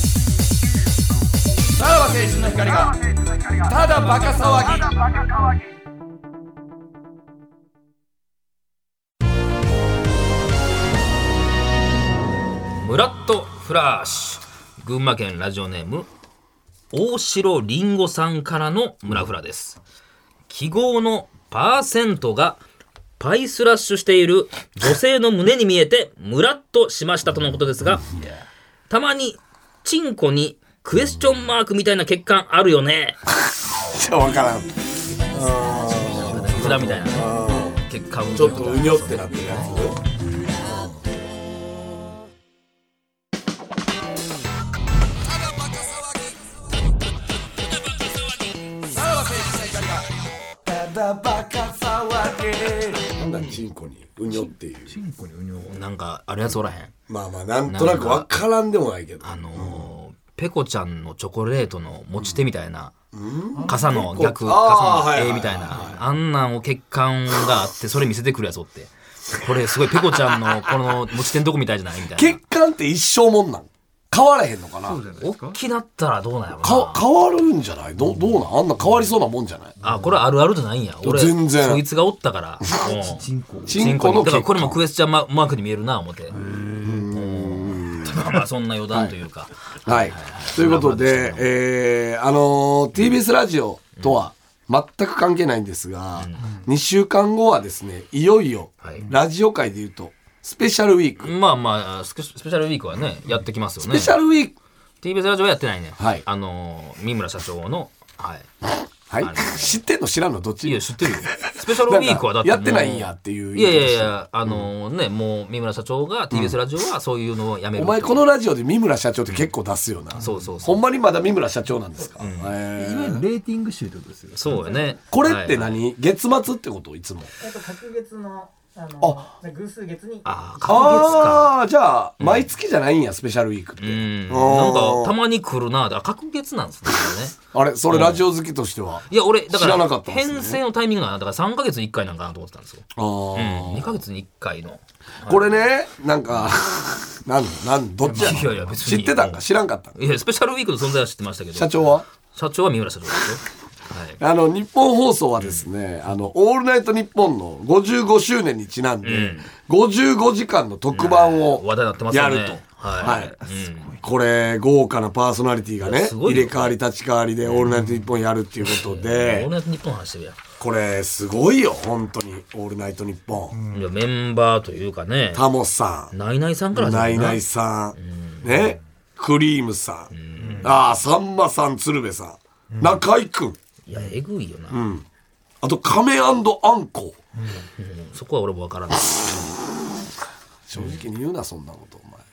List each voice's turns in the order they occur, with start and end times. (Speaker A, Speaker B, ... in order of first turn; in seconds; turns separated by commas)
Speaker A: 1.7-5.2, Speaker B: 12.8-16.1, Speaker B: 16.9-19.8, Speaker B: 20.5-22.6, Speaker B: 23.2-28.1, Speaker B: 28.9-33.2, Speaker A: 33.9-34.7, Speaker A: 35.2-37.8, Speaker C: 35.8-36.6, Speaker B: 36.0-39.9, Speaker A: 38.3-41.0, Speaker A: 45.7-46.0, Speaker A: 48.9-55.0, Speaker C: 54.9-55.8, Speaker B: 55.7-56.9, Speaker A: 57.1-59.9, Speaker B: 57.7-58.4, Speaker B: 59.2-62.9, Speaker A: 63.1-66.0, Speaker C: 63.5-64.0, Speaker B: 63.6-72.4, Speaker A: 72.1-75.0, Speaker C: 74.8-75.6, Speaker B: 75.2-77.0, Speaker A: 76.6-79.7, Speaker C: 79.8-80.2, Speaker B: 79.8-86.3, Speaker A: 81.0-81.8, Speaker C: 82.8-83.9, Speaker A: 83.7-84.8, Speaker C: 86.3-87.1, Speaker A: 86.8-88.2, Speaker B: 87.1-91.5, Speaker A: 89.8-101.3, Speaker B: 96.2-96.4, Speaker B: 98.8-99.1, Speaker B: 101.2-104.2, Speaker A: 103.8-104.5, Speaker B: 105.0-108.5, Speaker A: 106.0-106.2, Speaker A: 109.1-114.7, Speaker B: 109.2-109.8, Speaker B: 110.6-118.2, Speaker A: 116.3-116.6, Speaker A: 117.8-123.2, Speaker B: 120.1-120.8, Speaker C: 120.2-120.5, Speaker D: 121.9-122.3, Speaker B: 122.2-122.5, Speaker C: 122.7-124.7, Speaker B: 124.3-125.8, Speaker A: 125.1-127.3, Speaker D: 127.4-131.4, Speaker A: 129.0-129.3, Speaker B: 130.2-131.5, Speaker A: 130.6-135.1, Speaker B: 132.2-132.5, Speaker B: 133.8-137.4, Speaker A: 137.5-140.6, Speaker B: 137.9-138.2, Speaker B: 139.1-145.5, Speaker A: 142.9-144.0, Speaker A: 145.3-149.9, Speaker C: 148.0-148.8, Speaker B: 148.1-149.4, Speaker B: 149.9-154.2, Speaker A: 151.5-152.0, Speaker A: 154.2-163.3, Speaker B: 155.4-155.7, Speaker B: 159.0-159.5, Speaker B: 160.9-163.9, Speaker C: 163.0-164.0, Speaker A: 164.0-169.5, Speaker B: 165.8-166.7, Speaker B: 167.4-167.8, Speaker B: 168.6-170.4, Speaker A: 170.6-173.6, Speaker C: 173.5-173.9, Speaker B: 173.7-175.4, Speaker A: 175.3-176.1, Speaker B: 176.1-177.4, Speaker A: 176.7-180.1, Speaker B: 178.0-178.7, Speaker B: 180.1-180.8, Speaker C: 180.4-180.8, Speaker A: 180.6-183.6, Speaker C: 182.7-183.0, Speaker B: 183.9-184.8, Speaker A: 184.7-185.0, Speaker A: 185.6-187.2, Speaker C: 187.3-187.6, Speaker B: 187.8-189.5, Speaker A: 190.7-192.2, Speaker B: 190.8-191.0